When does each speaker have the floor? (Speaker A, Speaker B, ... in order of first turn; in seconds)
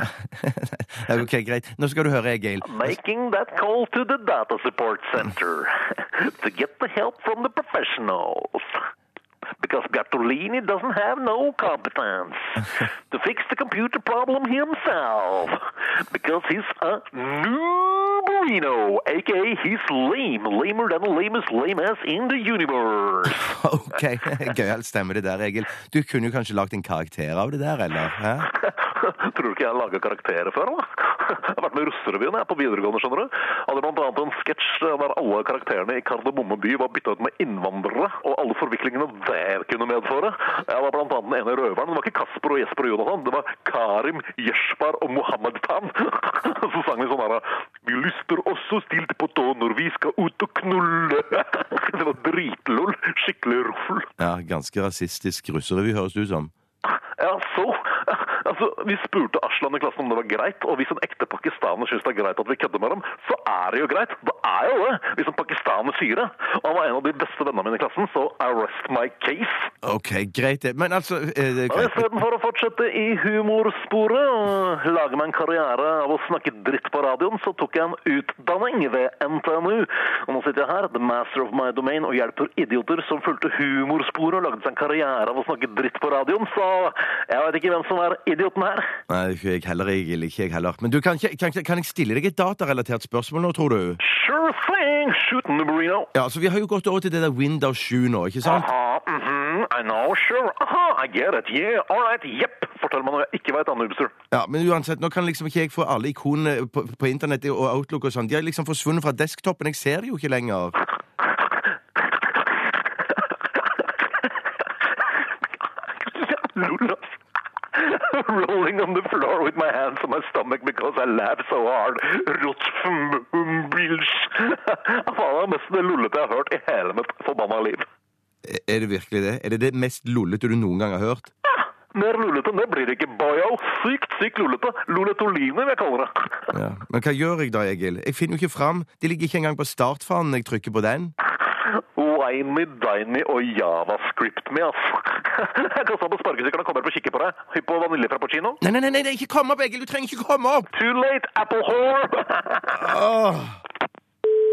Speaker A: 0.4-3.0, 23.3-28.5, 54.2-56.5, 69.8-72.2, 89.1-94.0, 96.1-98.7, 104.3-110.7, 128.4-131.3, 136.5-141.1, 148.6-150.7, 152.7-153.6
Speaker B: 2.6-8.8, 9.6-23.4, 28.5-54.1, 56.8-69.7, 71.7-88.9, 94.0-96.1, 98.4-104.1, 116.0-117.1, 117.7-127.8, 131.5-136.4, 141.5-148.6, 150.7-152.9